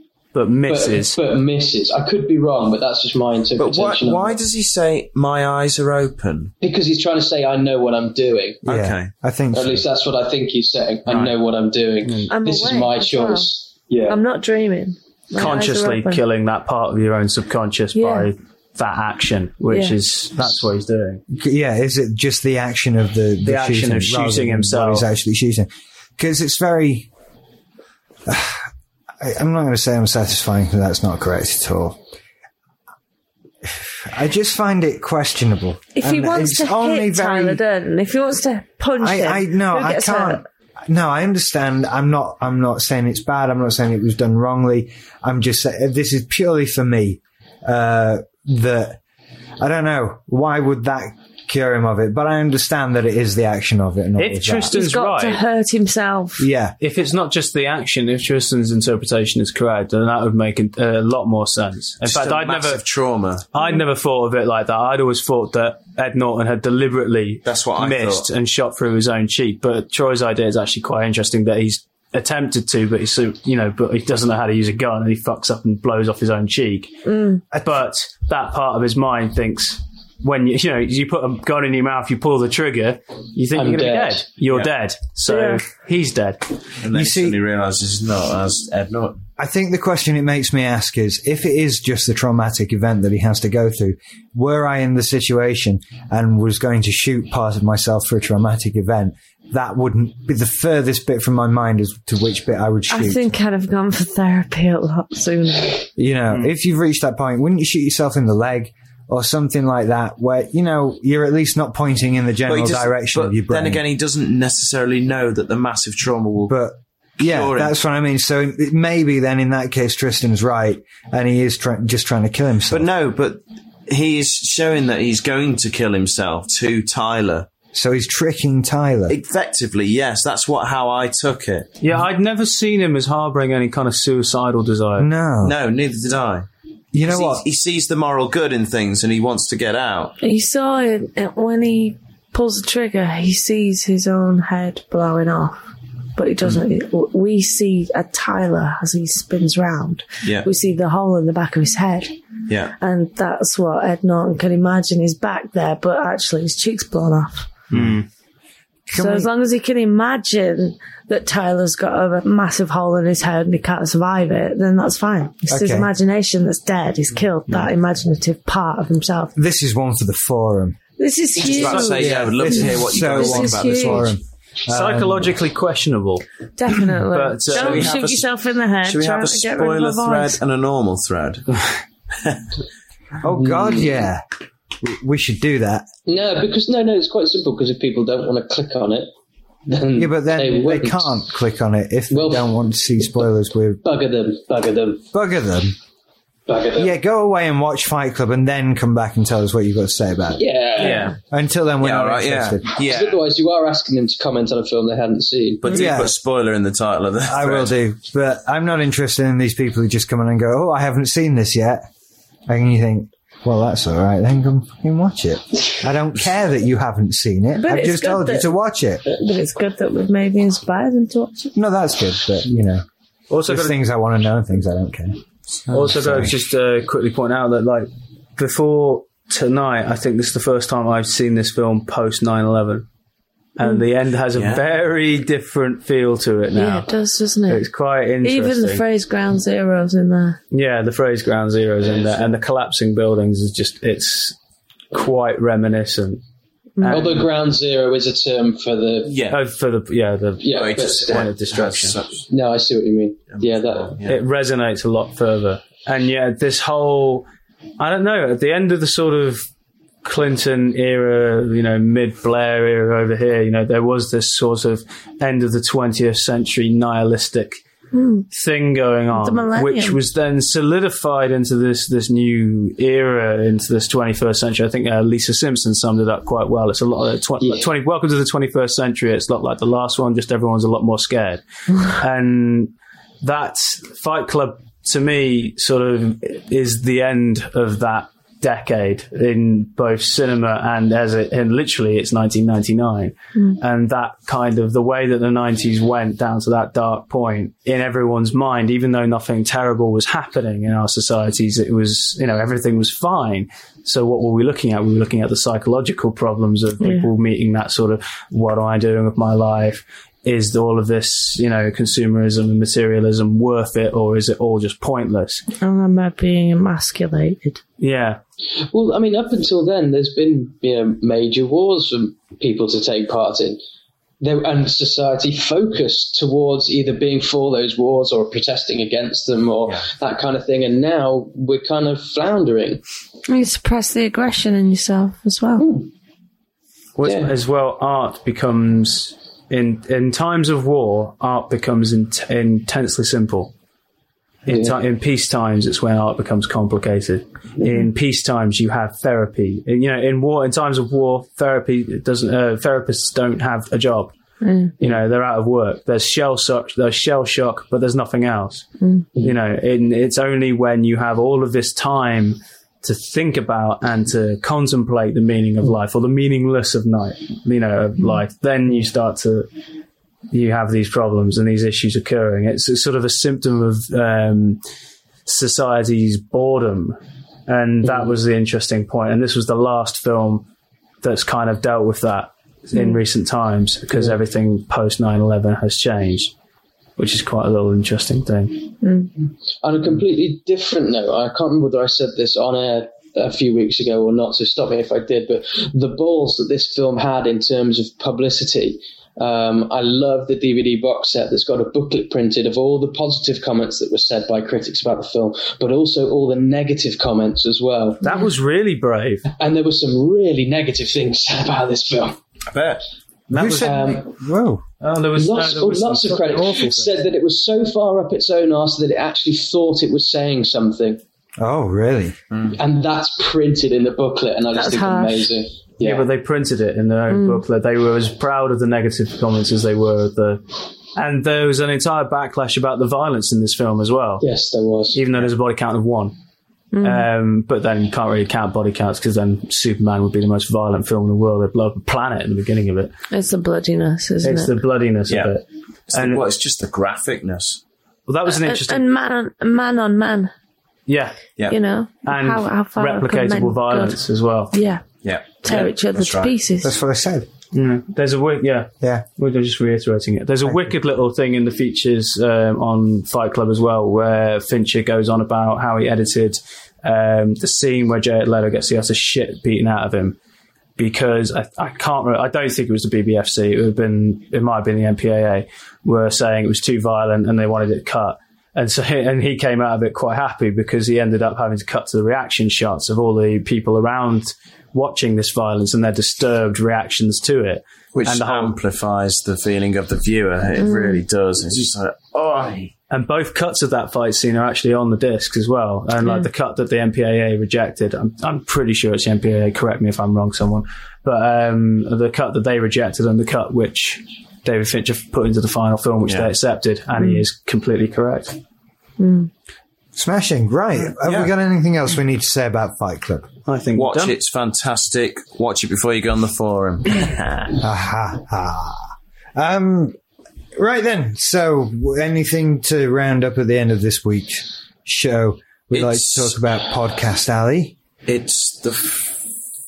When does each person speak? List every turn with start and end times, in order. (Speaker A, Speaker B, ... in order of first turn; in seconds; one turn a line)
Speaker A: 0.3-1.2
Speaker B: 0.7-4.4
Speaker C: 3.6-6.5
Speaker B: 6.6-8.6
Speaker C: 8.7-9.1
Speaker D: 8.7-9.8
Speaker B: 9.5-14.2
Speaker C: 11.1-11.3
Speaker A: 12.0-12.3
Speaker E: 12.3-13.5
Speaker E: 14.1-16.2
Speaker A: 15.3-21.2
Speaker E: 17.9-18.3
Speaker E: 19.7-20.0
Speaker D: 21.3-27.1
Speaker A: 23.4-25.1
Speaker D: 28.3-28.7
Speaker D: 29.2-32.0
Speaker D: 33.6-37.6
Speaker E: 36.0-40.4
Speaker D: 39.0-49.0
Speaker D: 49.6-54.7
Speaker A: 54.2-55.4
Speaker E: 54.7-56.5
Speaker D: 56.4-56.8
Speaker A: 56.8-62.8
Speaker C: 62.0-63.5
Speaker A: 63.5-86.4
Speaker C: 67.5-68.3
Speaker E: 77.1-77.4
Speaker B: 83.5-84.2
Speaker E: 85.3-85.6
Speaker C: 86.8-89.2
Speaker D: 86.9-87.4
Speaker D: 89.4-103.2
Speaker E: 102.9-105.9
Speaker D: 106.0-113.8
Speaker C: 112.5-116.5
Speaker D: 116.5-122.9
Speaker C: 117.2-117.8
Speaker C: 122.7-127.5
Speaker D: 127.7-129.2
Speaker C: 129.1-131.8
Speaker A: 131.8-135.1
Speaker D: 135.0-135.6
Speaker C: 135.4-136.5
Speaker D: 136.9-137.4
Speaker C: 137.0-140.2
Speaker E: 140.2-145.6
Speaker E: 146.2-152.1
Speaker C: 150.2-150.5
Speaker C: 152.5-152.8
Speaker E: 152.8-157.5
Speaker A: 157.7-158.1
Speaker D: 158.9-159.3
Speaker E: 158.9-169.3
Speaker D: 165.5-165.9
Speaker D: 169.4-170.8
Speaker E: 171.0-174.1
Speaker C: 171.4-174.1
Speaker D: 171.6-175.3
Speaker A: 174.7-176.2
Speaker E: 176.6-180.4
Speaker A: 177.0-177.9
Speaker C: 177.5-178.3
Speaker C: 178.8-181.6
Speaker D: 183.2-184.2
Speaker B: 183.4-184.1
Speaker D: 184.8-185.9
Speaker B: 186.1-189.1
Speaker B: 189.7-191.1
Speaker D: 190.0-193.8
Speaker B: 192.1-192.5
Speaker B: 193.8-195.0
Speaker D: 195.1-195.8
Speaker B: 196.5-196.9
Speaker D: 196.8-200.4
Speaker B: 200.4-201.1
Speaker A: 200.8-201.1
Speaker D: 201.3-202.7
Speaker C: 201.8-203.2
Speaker B: 202.8-205.8
Speaker C: 205.6-207.8
Speaker D: 205.7-206.2
Speaker D: 207.3-211.8
Speaker D: 212.5-219.0
Speaker E: 217.6-218.5
Speaker E: 219.0-221.5
Speaker D: 221.6-222.8
Speaker A: 223.3-223.8
Speaker D: 223.4-225.2
Speaker A: 225.7-232.9
Speaker D: 225.8-226.3
Speaker A: 233.6-236.9
Speaker C: 234.3-234.7
Speaker E: 236.5-237.7
Speaker A: 237.5-238.8
Speaker E: 238.2-240.4
Speaker A: 240.5-244.4
Speaker C: 241.8-242.3
Speaker A: 244.9-246.2
Speaker E: 246.8-247.1
Speaker A: 246.8-247.3
Speaker B: 246.9-249.2
Speaker C: 249.1-249.4
Speaker A: 249.3-252.0
Speaker B: 250.4-251.3
Speaker C: 250.5-252.3
Speaker B: 252.3-254.0
Speaker C: 253.3-254.2
Speaker A: 254.0-257.3
Speaker A: 257.8-259.5
Speaker A: 260.0-267.6
Speaker E: 267.9-268.3
Speaker A: 268.3-315.4
Speaker E: 269.1-270.0
Speaker E: 306.8-307.1
Speaker E: 315.6-317.6
Speaker A: 317.8-318.2
Speaker B: 318.7-323.6
Speaker B: 324.2-332.8
Speaker E: 333.3-335.7
Speaker B: 335.6-335.9
Speaker A: 337.0-343.5
Speaker B: 337.0-337.3
Speaker A: 344.5-354.1
Speaker B: 344.5-344.7
Speaker E: 354.4-354.7
Speaker A: 354.8-369.5
Speaker E: 358.8-359.1
Speaker A: 370.3-374.6
Speaker A: 375.3-380.4
Speaker A: 381.0-386.3
Speaker A: 387.0-388.7
Speaker E: 388.8-389.1
Speaker B: 389.6-408.0
Speaker A: 408.0-409.3
Speaker B: 409.4-412.2
Speaker C: 412.5-412.8
Speaker A: 413.3-414.0
Speaker D: 413.3-414.6
Speaker B: 413.4-414.1
Speaker A: 414.8-417.0
Speaker B: 415.1-421.0
Speaker D: 421.4-422.2
Speaker C: 422.3-422.6
Speaker B: 422.6-426.1
Speaker E: 424.6-425.3
Speaker A: 425.8-430.4
Speaker E: 427.1-427.4
Speaker A: 430.9-434.2
Speaker B: 434.2-435.0
Speaker A: 434.9-436.1
Speaker E: 436.7-437.1
Speaker A: 436.8-442.9
Speaker E: 443.1-444.6
Speaker A: 444.2-446.2
Speaker C: 445.9-447.6
Speaker A: 448.1-448.9
Speaker E: 448.4-450.3
Speaker A: 450.9-451.2
Speaker E: 451.5-454.0
Speaker A: 452.1-454.5
Speaker E: 454.5-456.8
Speaker C: 455.0-456.4
Speaker D: 456.6-457.3
Speaker A: 457.5-470.2
Speaker A: 470.8-488.6
Speaker C: 487.9-492.7
Speaker E: 490.6-491.0
Speaker A: 492.9-508.4
Speaker E: 507.0-507.2
Speaker E: 509.0-509.3
Speaker D: 509.9-513.3
Speaker C: 511.0-511.3
Speaker A: 513.5-514.1
Speaker C: 513.8-517.6
Speaker D: 517.6-520.0
Speaker D: 520.6-527.8
Speaker C: 525.7-526.7
Speaker C: 528.1-529.2